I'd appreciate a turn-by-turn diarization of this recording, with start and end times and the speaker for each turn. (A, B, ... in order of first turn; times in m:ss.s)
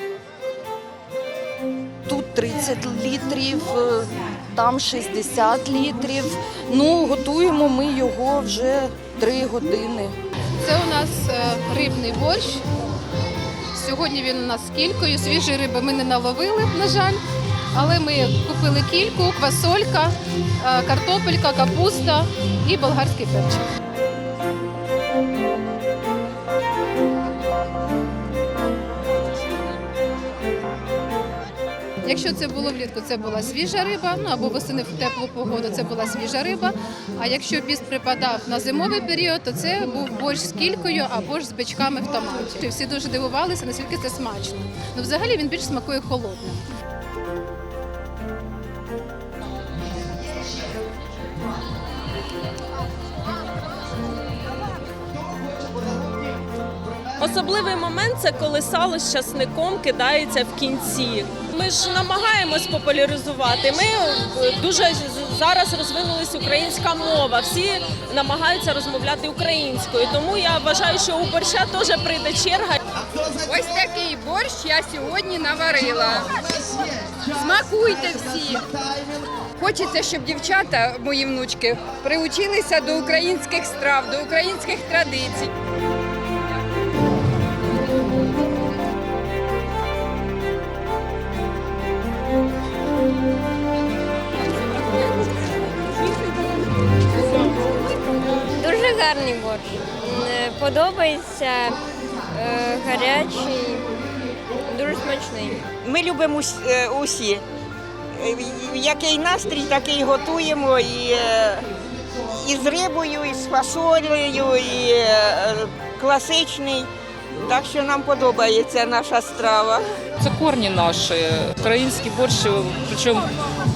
0:02.1-0:10.2 A
0:10.6-0:12.6 B
0:13.7-0:17.2 B
0:17.7-0:23.6 B
0:32.0-0:46.6 B
0:57.2-1:12.8 C
1:13.4-1:18.8 D
1:19.6-1:25.5 D
1:38.6-1:43.9 E
1:44.7-1:45.7 E
1:45.8-1:47.4 F
1:48.2-1:51.7 F
1:52.3-1:56.9 F
1:57.5-1:59.9 F
2:00.2-2:03.3 G